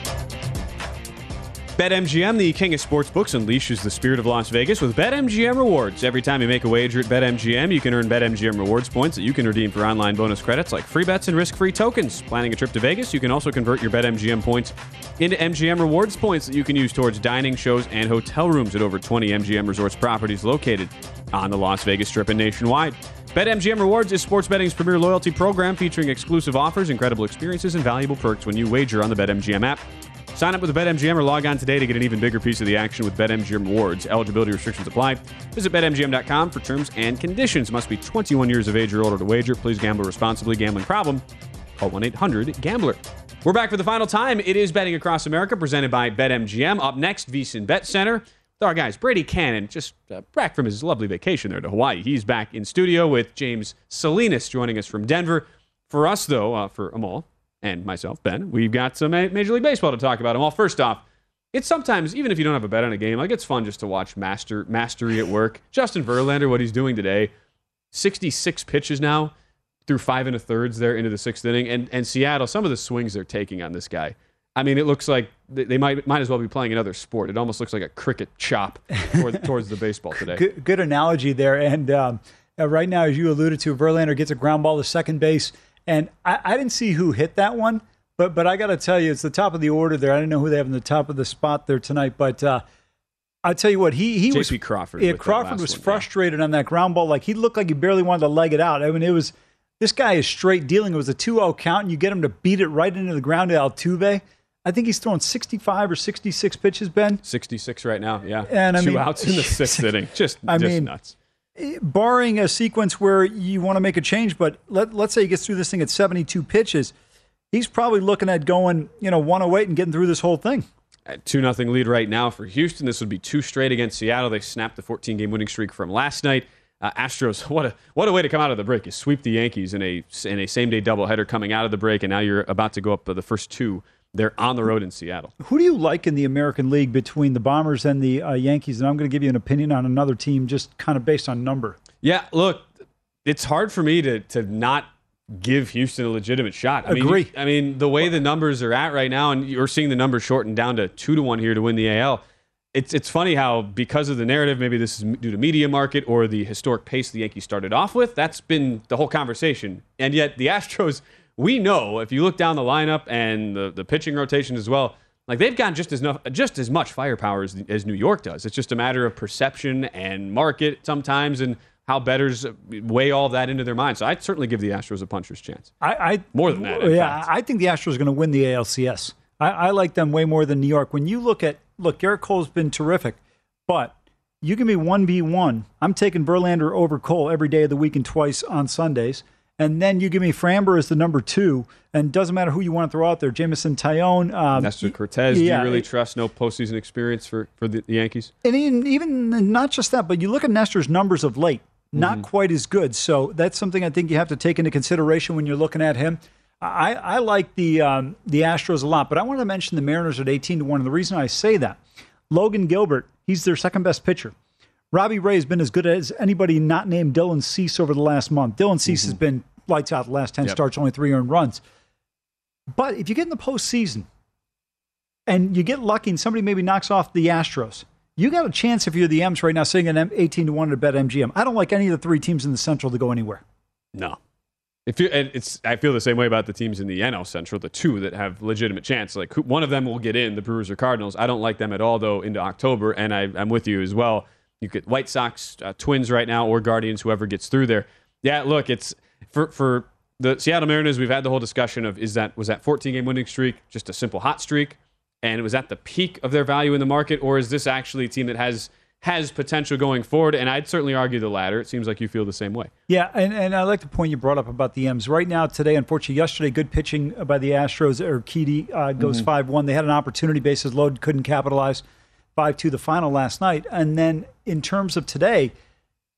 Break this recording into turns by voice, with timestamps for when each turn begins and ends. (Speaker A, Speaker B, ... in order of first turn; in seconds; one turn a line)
Speaker A: 1.8-29.8
Speaker A: 30.3-41.2
Speaker A: 41.8-67.3
Speaker A: 67.9-69.3
Speaker A: 69.9-80.4
Speaker B: 79.1-79.4
Speaker B: 80.1-92.6
Speaker B: 93.4-107.2
Speaker A: 94.3-96.1
Speaker A: 107.2-111.1
Speaker B: 108.5-109.9
Speaker B: 110.4-110.9
Speaker B: 111.5-116.9
Speaker B: 117.5-120.7
Speaker A: 121.1-135.3
Speaker B: 135.4-141.8
Speaker A: 142.0-142.7
Speaker A: 143.2-152.2
Speaker B: 146.8-147.3
Speaker A: 152.7-175.7
Speaker B: 175.8-195.9
Speaker A: 176.3-177.3
Speaker A: 194.6-198.3
Speaker B: 198.4-214.3
Speaker A: 202.0-202.2
Speaker B: 214.9-221.6
Speaker A: 218.9-219.2
Speaker B: 222.7-224.1
Speaker B: 225.3-233.4
Speaker A: 233.9-234.2
Speaker A: 234.9-262.7
Speaker B: 262.9-271.8
Speaker A: 269.0-269.2
Speaker B: 272.4-275.5